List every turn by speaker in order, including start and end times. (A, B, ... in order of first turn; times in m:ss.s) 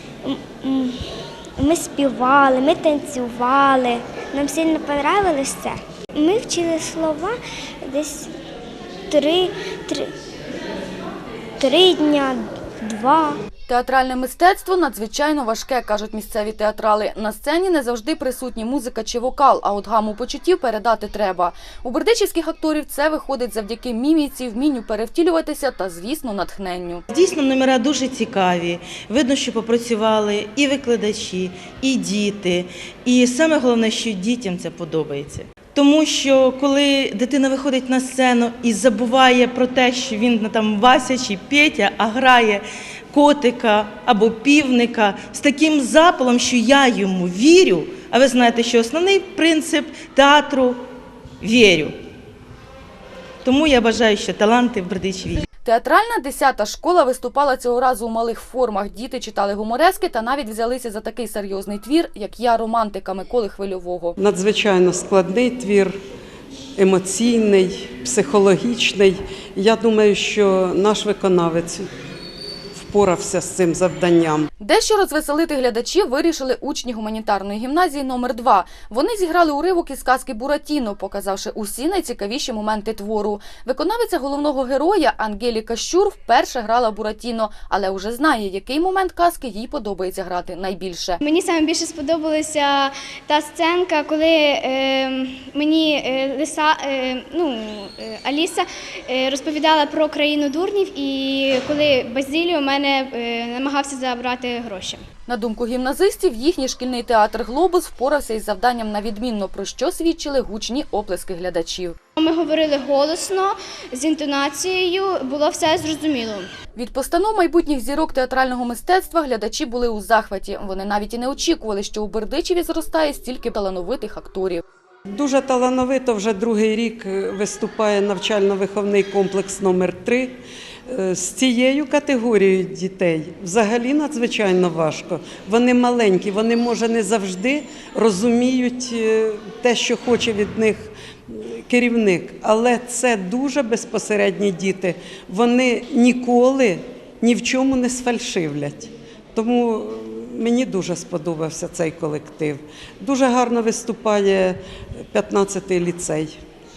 0:00.2-0:01.0 A
0:01.6-0:08.3 A
0:09.1-0:10.1 A
0:11.6-0:13.4 A
0:13.7-0:27.0 B
0:27.1-0:50.8 C
0:51.4-0:52.0 C
0:53.4-0:55.4 C
0:55.6-1:04.2 B
1:04.2-1:06.0 D
1:06.8-1:11.9 D
1:12.7-1:14.5 D
1:14.6-1:31.2 B
1:31.2-1:45.0 E
1:45.3-1:52.0 B
1:52.2-1:56.5 E
1:56.8-2:04.6 B
2:05.1-2:34.6 D
2:35.1-2:36.4 D